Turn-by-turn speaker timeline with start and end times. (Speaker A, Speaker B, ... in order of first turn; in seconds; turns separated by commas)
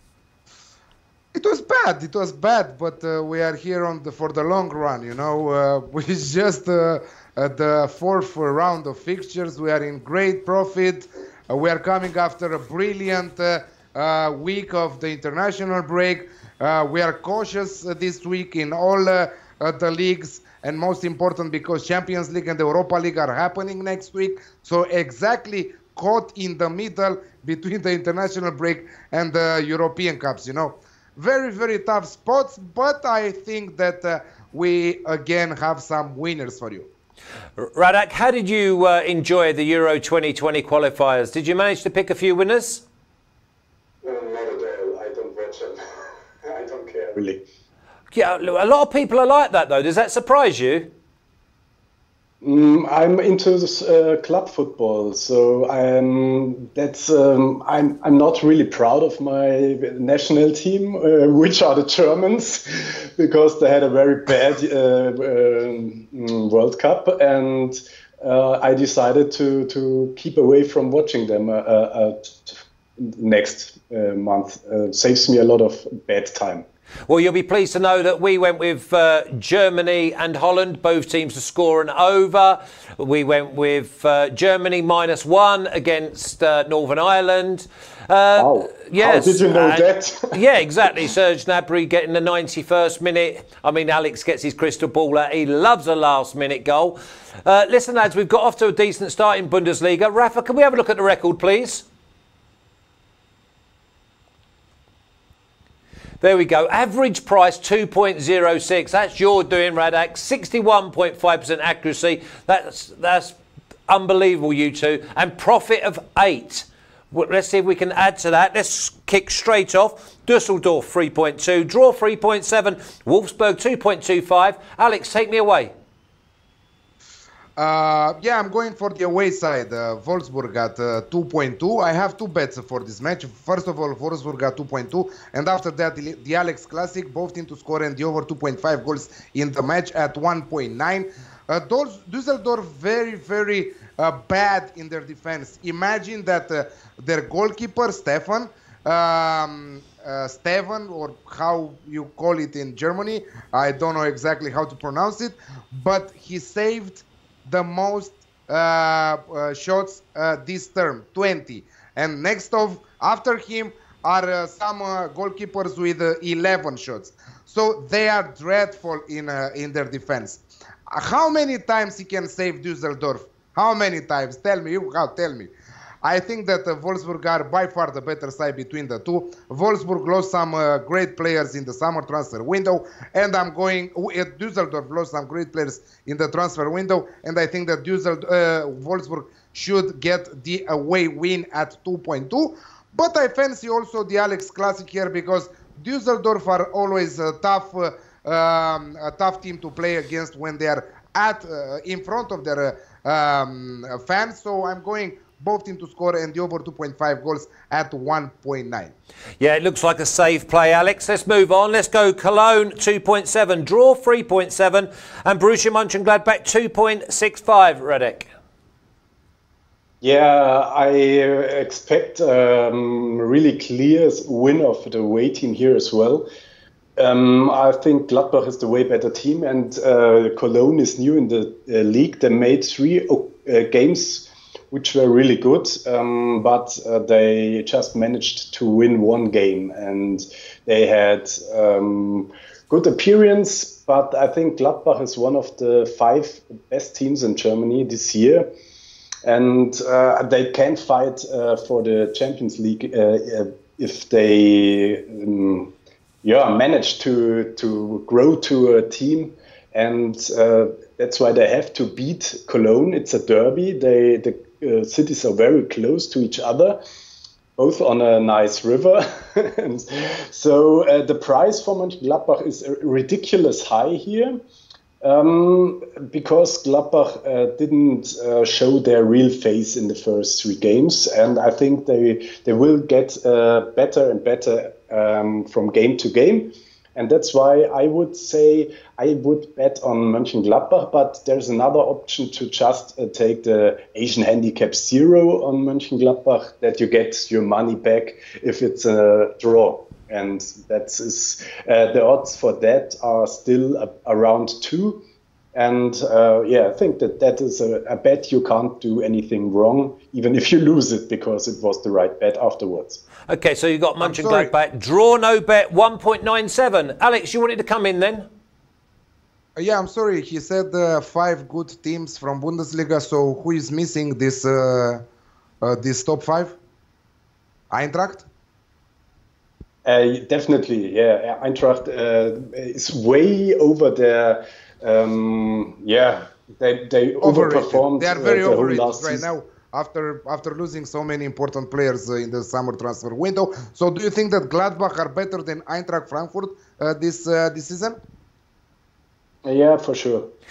Speaker A: 1.3-36.9, Speaker B: 37.6-42.8, Speaker C: 44.0-45.8, Speaker C: 46.4-47.4, Speaker B: 48.1-50.9, Speaker C: 52.4-76.6, Speaker B: 77.1-101.8, Speaker C: 88.4-90.4, Speaker B: 106.2-113.4, Speaker B: 113.9-125.7, Speaker A: 127.5-175.5, Speaker A: 176.0-208.9, Speaker B: 209.4-218.3, Speaker C: 220.0-226.3, Speaker C: 227.0-248.5, Speaker C: 249.2-266.8, Speaker C: 267.6-274.4, Speaker C: 275.0-313.0, Speaker B: 313.3-318.3, Speaker A: 314.0-314.5, Speaker A: 319.6-325.0, Speaker A: 325.6-326.6, Speaker A: 327.7-328.2, Speaker C: 329.8-339.3, Speaker A: 337.2-348.0, Speaker C: 349.4-350.3